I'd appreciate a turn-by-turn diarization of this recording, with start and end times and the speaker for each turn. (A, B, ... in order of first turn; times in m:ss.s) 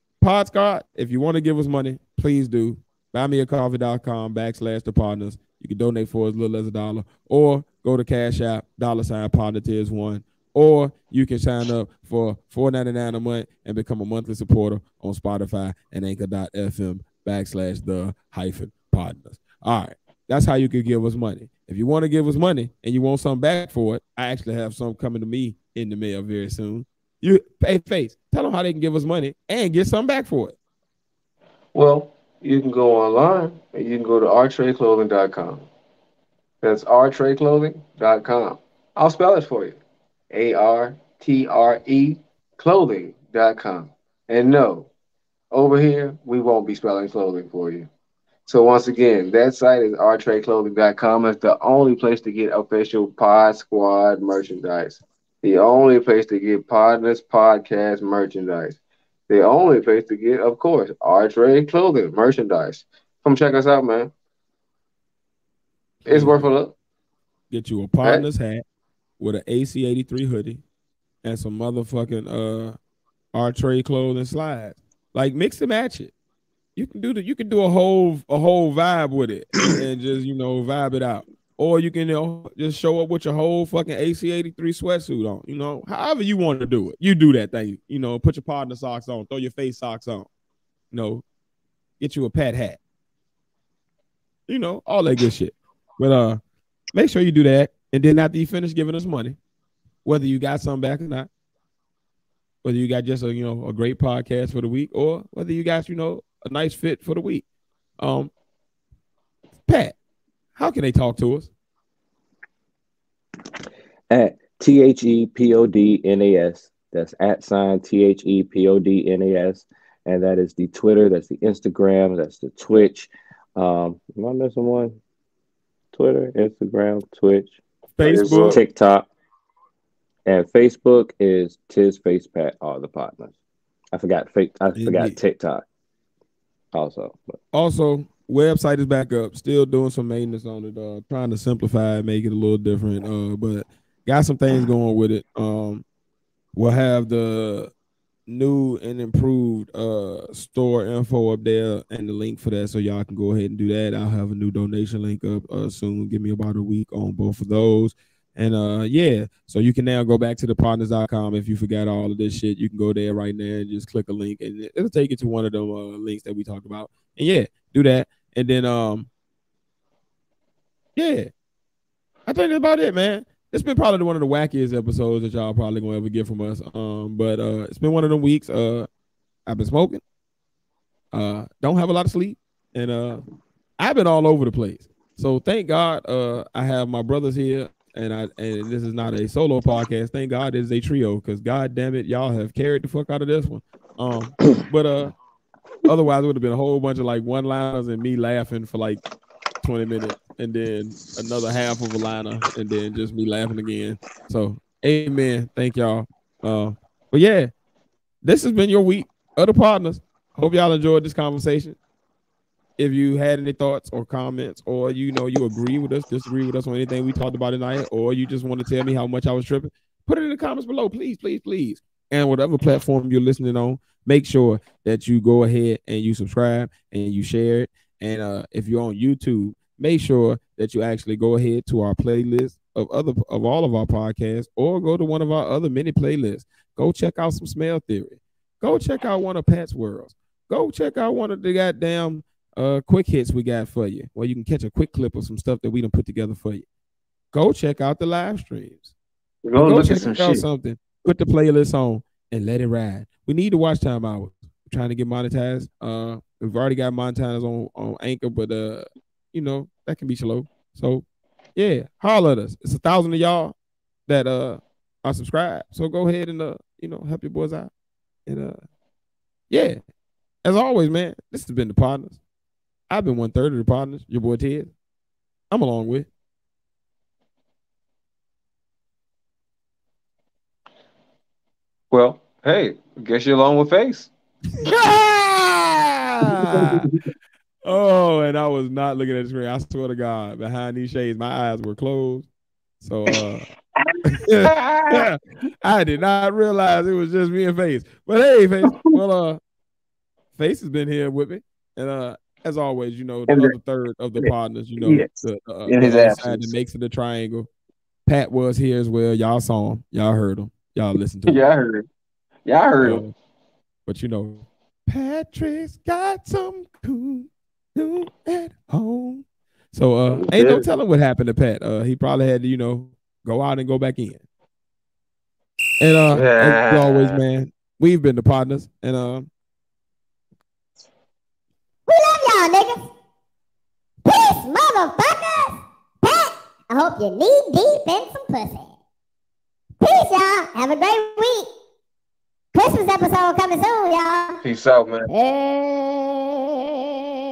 0:00.2-0:30.5 A
0:31.7-0:35.6 B
0:36.6-0:39.8 B
0:40.3-0:44.9 B
0:45.5-0:47.9 B
0:48.5-0:58.8 B
0:59.3-1:04.1 B
1:06.0-1:06.7 B
1:06.1-1:06.5 A
1:07.5-1:08.6 A
1:09.2-1:10.6 A
1:11.2-1:12.8 A
1:13.3-1:16.1 A
1:16.8-1:30.3 A
1:30.9-1:31.2 A
1:32.0-1:32.8 A
1:34.5-1:36.4 A
1:36.9-1:39.4 A
1:40.0-1:41.3 A
1:42.6-1:47.4 A
1:48.0-1:48.3 A
1:49.6-1:50.0 A
1:50.6-1:51.5 A
1:54.1-2:05.0 C
2:05.9-2:07.5 C
2:07.9-2:08.6 A
2:08.0-2:08.6 B
2:08.3-2:09.1 C
2:10.2-2:13.3 C
2:13.9-2:15.6 C
2:14.8-2:15.2 A
2:16.7-2:17.3 C
2:17.5-2:25.8 A
2:26.5-2:27.7 A
2:28.3-2:49.1 A
2:51.0-2:51.3 A
2:52.2-2:58.9 A
2:59.4-3:00.0 A
3:01.1-3:03.2 A
3:03.8-3:15.1 A
3:15.8-3:19.0 A
3:19.6-3:27.5 A
3:28.2-3:31.8 A
3:32.8-4:06.6 A
4:07.3-4:08.9 A
4:09.4-4:10.4 B
4:09.6-4:23.5 A
4:24.1-4:27.7 A
4:28.2-4:28.6 A
4:29.5-4:29.8 A
4:30.4-4:32.2 A
4:32.9-4:34.7 A
4:35.5-4:36.1 A
4:41.9-4:44.1 B
4:44.6-4:46.9 A
4:46.4-4:47.0 B
4:47.6-4:52.3 A
4:52.8-4:53.4 A
4:53.8-4:55.1 B
4:54.1-4:59.4 A
5:00.3-5:07.5 A
5:03.3-5:03.5 B
5:04.2-5:06.5 B
5:08.0-5:11.4 A
5:11.3-5:11.8 B
5:12.4-5:13.0 B
5:12.8-5:13.1 A
5:13.8-5:24.2 A
5:20.1-5:20.7 B
5:25.8-5:29.3 A
5:26.1-5:27.2 B
5:31.9-5:32.9 D
5:34.0-5:38.7 D
5:39.8-5:41.5 D
5:42.5-5:44.4 D
5:44.4-5:45.1 B
5:45.1-5:46.6 A